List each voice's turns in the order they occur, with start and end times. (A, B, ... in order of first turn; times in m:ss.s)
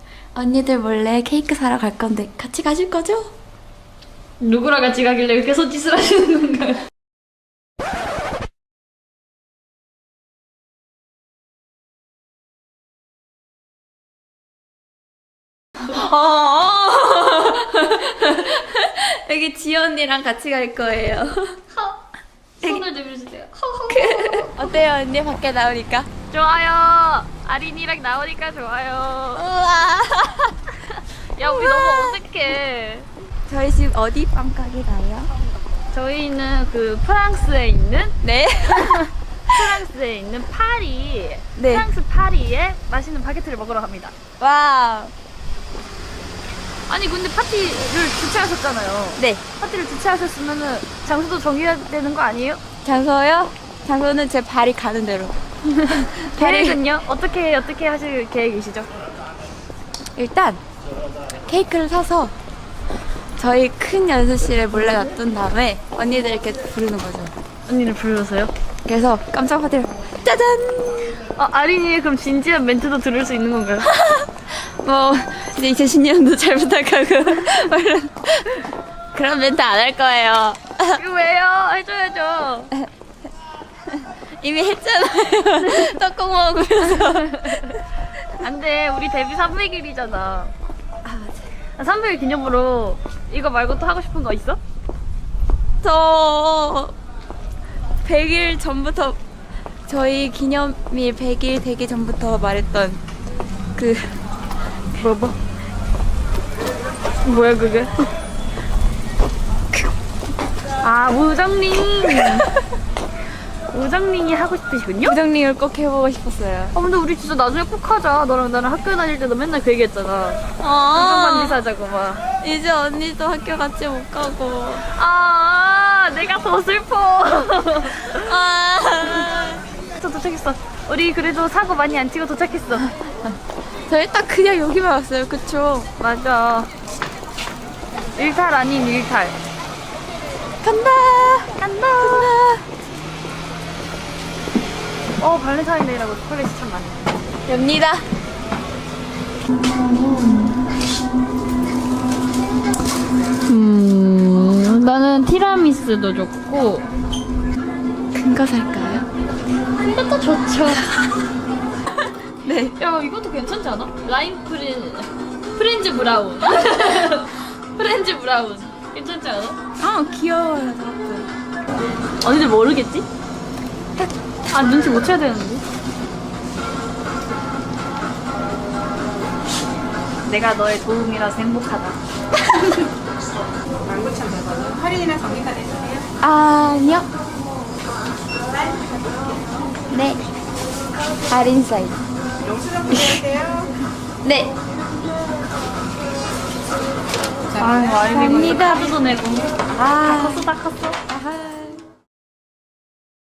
0:00.3-0:03.3 A
0:04.4-0:06.8 B
0:15.9-0:21.6 A
0:22.6-0:24.7 B
0:23.9-0:26.1 A
0:26.3-0:29.4 B
0:29.3-0:30.6 A
0:30.9-0:33.1 B
0:31.4-0:32.2 A
0:33.5-0:35.3 A
0:35.9-0:38.2 B
0:38.2-0:39.8 A
0:39.5-0:44.2 B
0:41.6-0:41.9 A
0:44.4-0:45.1 A
0:46.9-0:52.6 B
0:49.2-0:49.4 A
0:52.8-0:56.8 A
0:55.7-0:58.9 B
1:00.2-1:00.6 A
1:01.4-1:02.3 A
1:03.4-1:07.3 A
1:07.7-1:08.5 B
1:08.8-1:11.2 A
1:11.3-1:13.9 B
1:13.8-1:21.0 A
1:21.0-1:22.7 B
1:23.9-1:27.8 A
1:25.6-1:26.0 B
1:26.8-1:27.8 B
1:28.4-1:30.5 B
1:31.0-1:31.5 A
1:31.8-1:34.6 B
1:35.8-1:36.9 A
1:38.0-1:39.2 A
1:39.9-1:43.0 A
1:43.8-1:44.2 A
1:44.9-1:45.4 B
1:47.2-1:48.0 B
1:50.8-1:52.5 B
1:52.2-1:52.5 A
1:53.7-1:55.2 B
1:55.0-1:56.8 A
1:56.7-2:02.2 B
2:00.6-2:01.6 A
2:02.4-2:04.8 A
2:04.8-2:08.3 B
2:08.0-2:09.6 A
2:10.0-2:12.9 B
2:13.9-2:15.9 A
2:16.0-2:16.7 B
2:18.2-2:19.4 B
2:20.6-2:22.6 A
2:21.6-2:22.3 B
2:25.2-2:27.2 B
2:27.5-2:28.0 A
2:29.8-2:30.6 A
2:33.5-2:36.8 B
2:38.1-2:39.1 A
2:39.8-2:41.0 B
2:42.3-2:42.8 A
2:42.8-2:49.6 B
2:49.8-2:51.3 A
2:52.2-2:53.0 B
2:54.5-2:55.6 B
3:00.2-3:02.0 B
3:03.9-3:05.8 C
3:06.2-3:07.1 A
3:09.9-3:10.2 A
3:11.3-3:12.0 A
3:12.9-3:13.4 A
3:14.2-3:14.5 A
3:17.5-3:21.0 B
3:17.8-3:18.9 A
3:19.8-3:20.5 A
3:21.1-3:21.8 A